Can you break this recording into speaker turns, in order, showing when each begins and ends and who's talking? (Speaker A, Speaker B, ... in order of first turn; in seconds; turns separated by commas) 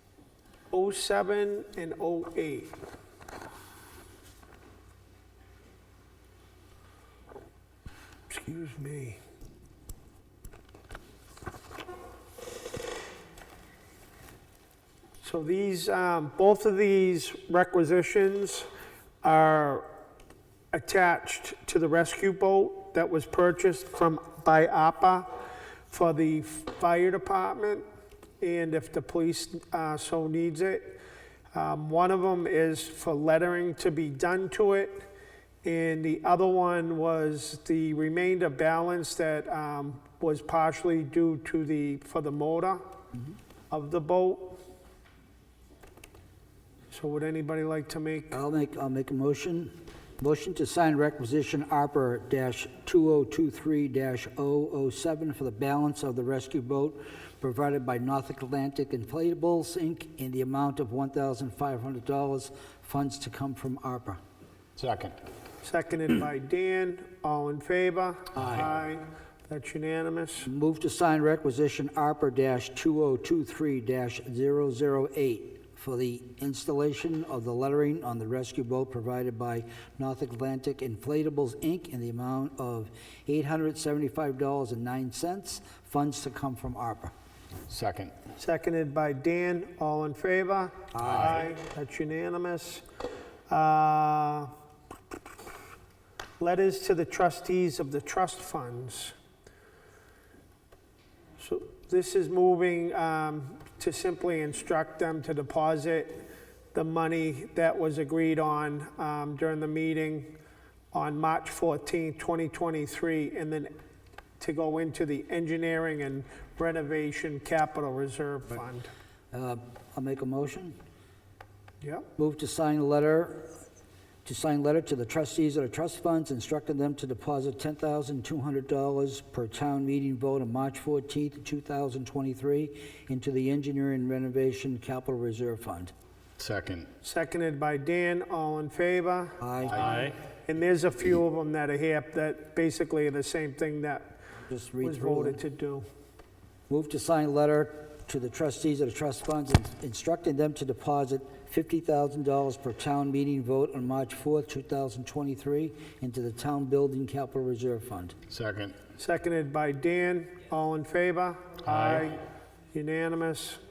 Speaker A: 0.7-2.8, Speaker A: 8.3-9.2, Speaker A: 15.2-18.7, Speaker A: 19.2-19.9, Speaker A: 20.7-25.3, Speaker A: 25.9-27.9, Speaker A: 28.4-31.0, Speaker A: 31.5-35.1, Speaker A: 35.6-42.8, Speaker A: 43.7-44.6, Speaker A: 46.9-48.4, Speaker B: 48.3-64.2, Speaker C: 64.8-65.2, Speaker A: 65.6-70.5, Speaker B: 70.4-87.1, Speaker C: 87.7-88.1, Speaker A: 88.4-92.8, Speaker B: 90.9-91.4, Speaker A: 93.5-94.5, Speaker A: 96.4-99.2, Speaker A: 101.4-106.2, Speaker A: 106.7-110.3, Speaker A: 110.9-113.7, Speaker A: 114.4-118.9, Speaker B: 119.3-120.8, Speaker A: 121.8-122.1, Speaker B: 122.2-123.5, Speaker B: 124.2-135.9, Speaker C: 136.4-136.9, Speaker A: 137.0-139.4, Speaker B: 139.4-139.9, Speaker C: 139.7-140.2, Speaker A: 139.9-144.2, Speaker B: 144.5-145.4, Speaker A: 144.8-145.8, Speaker B: 146.7-158.2, Speaker C: 158.3-158.8, Speaker A: 159.0-162.2, Speaker C: 161.7-162.1, Speaker A: 162.7-163.6